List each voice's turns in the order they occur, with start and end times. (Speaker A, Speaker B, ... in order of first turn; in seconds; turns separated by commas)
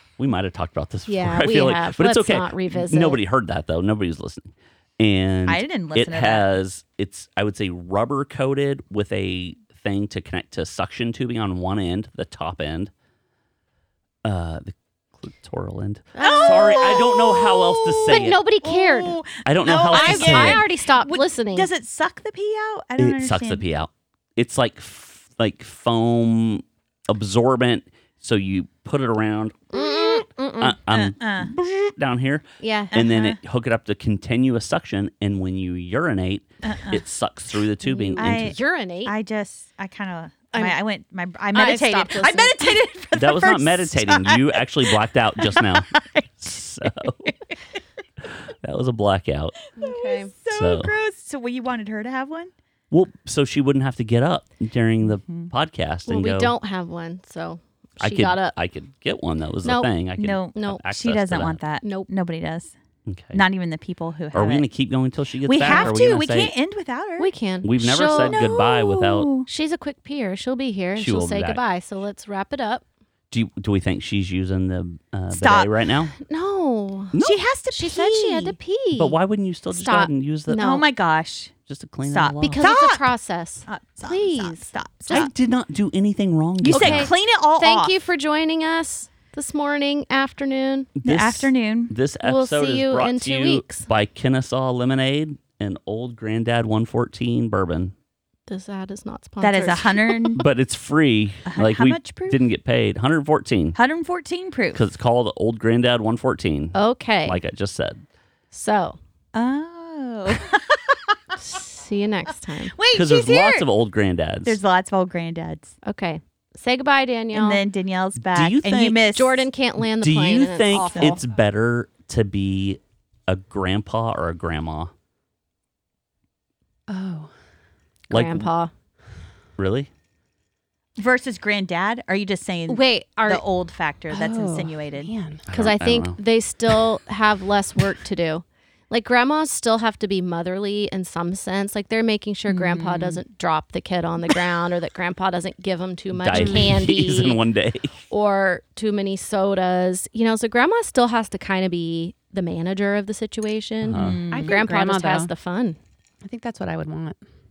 Speaker A: 0.2-12.9, Speaker B: 1.1-3.2, Speaker C: 5.5-6.5, Speaker A: 14.2-18.4, Speaker B: 16.1-19.2, Speaker C: 16.2-23.6, Speaker A: 19.4-20.7, Speaker B: 19.9-21.7, Speaker A: 23.0-38.5, Speaker B: 29.7-30.8, Speaker C: 30.9-31.5, Speaker B: 32.6-33.0, Speaker C: 32.9-33.4, Speaker C: 36.6-37.0, Speaker B: 37.8-39.1, Speaker C: 38.2-46.3, Speaker B: 40.5-40.8, Speaker B: 41.5-42.9, Speaker A: 43.1-47.2, Speaker C: 46.9-47.5, Speaker A: 48.3-49.5, Speaker C: 49.8-52.5, Speaker B: 49.8-50.3, Speaker A: 50.5-50.9, Speaker A: 52.9-56.5, Speaker C: 55.2-55.5, Speaker B: 56.1-58.5, Speaker A: 58.0-61.6, Speaker B: 59.6-59.9, Speaker C: 60.2-62.7, Speaker B: 60.5-60.9, Speaker B: 61.8-62.1, Speaker A: 63.1-63.4, Speaker C: 63.3-64.7, Speaker A: 64.3-66.5, Speaker C: 65.4-69.5, Speaker B: 65.6-66.0, Speaker B: 67.2-68.6, Speaker A: 67.6-69.3, Speaker B: 69.5-72.8, Speaker A: 71.0-71.6, Speaker A: 73.3-76.1, Speaker C: 75.3-75.7, Speaker B: 76.2-77.1, Speaker A: 77.1-77.4, Speaker C: 77.2-78.6, Speaker B: 77.7-79.2, Speaker A: 79.0-80.7, Speaker B: 79.7-80.8, Speaker C: 80.6-81.5, Speaker A: 81.7-82.7, Speaker C: 82.1-83.0, Speaker B: 82.4-84.7, Speaker C: 83.7-85.3, Speaker A: 85.1-87.1, Speaker C: 86.6-87.9, Speaker B: 86.7-90.9, Speaker A: 91.0-97.9, Speaker C: 91.0-91.9, Speaker B: 92.2-93.9, Speaker B: 98.5-100.4, Speaker C: 99.4-100.5, Speaker A: 100.4-103.8, Speaker C: 101.5-102.4, Speaker C: 103.8-104.8, Speaker A: 104.7-108.0, Speaker B: 106.7-107.4, Speaker B: 108.5-109.0, Speaker C: 109.3-111.1, Speaker B: 111.4-112.8, Speaker C: 112.6-113.7, Speaker A: 112.9-114.6, Speaker C: 114.5-115.7, Speaker B: 115.8-117.6, Speaker C: 117.3-119.5, Speaker A: 118.2-119.0, Speaker B: 119.1-121.2, Speaker A: 120.0-124.9, Speaker C: 120.8-121.2, Speaker D: 126.9-127.3, Speaker A: 128.1-128.5, Speaker B: 128.1-128.7, Speaker A: 129.6-129.9, Speaker C: 131.0-135.1, Speaker D: 132.7-133.4, Speaker D: 134.1-135.4, Speaker A: 135.5-136.2, Speaker B: 135.5-147.4, Speaker C: 142.5-143.2, Speaker A: 146.1-147.9, Speaker D: 146.3-146.7, Speaker B: 148.1-155.8, Speaker A: 153.8-154.2, Speaker C: 154.0-154.6, Speaker D: 154.3-155.3, Speaker D: 156.2-157.2